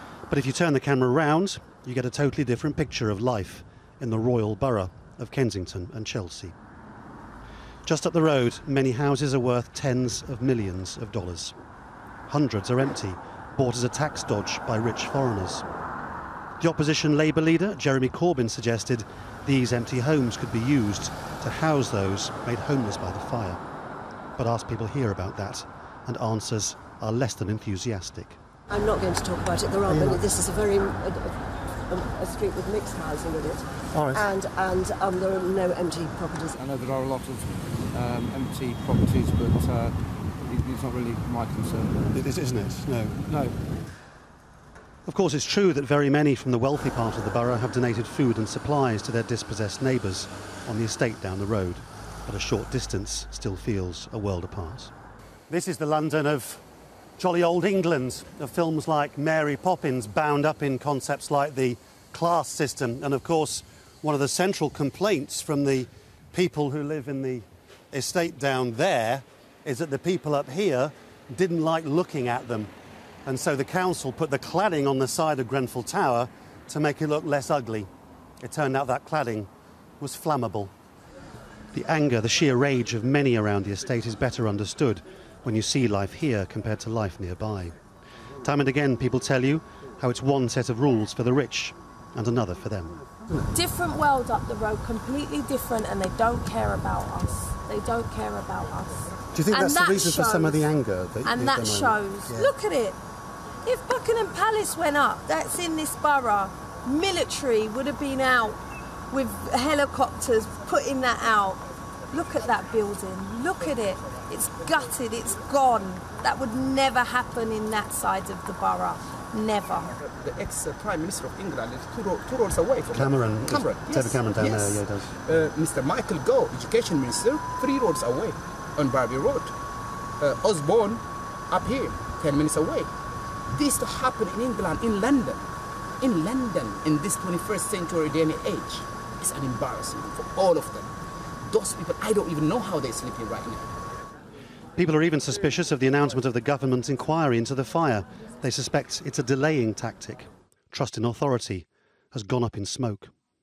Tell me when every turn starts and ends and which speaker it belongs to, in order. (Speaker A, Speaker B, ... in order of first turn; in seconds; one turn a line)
Speaker A: 0.3-6.5
Speaker A: 7.8-11.5
Speaker A: 12.3-15.6
Speaker A: 16.6-23.6
Speaker A: 24.4-28.4
Speaker B: 28.7-36.6
Speaker A: 29.9-30.2
Speaker A: 33.9-34.2
Speaker C: 36.6-42.1
Speaker A: 42.1-43.2
Speaker C: 43.3-43.6
Speaker A: 45.0-54.9
Speaker A: 55.5-56.6
Speaker A: 57.2-72.7
Speaker A: 73.2-77.9
Speaker A: 78.4-79.5
Speaker A: 80.0-80.7
Speaker A: 81.7-87.7
Speaker A: 88.4-93.5
Speaker D: 93.5-100.7
Speaker A: 99.3-102.5
Speaker D: 101.4-103.0
Speaker D: 103.6-108.6
Speaker D: 109.1-119.9
Speaker E: 120.0-129.5
Speaker A: 122.9-125.1
Speaker E: 130.2-132.9
Speaker E: 133.5-135.4
Speaker E: 136.0-140.9
Speaker E: 141.5-143.7
Speaker A: 144.8-153.1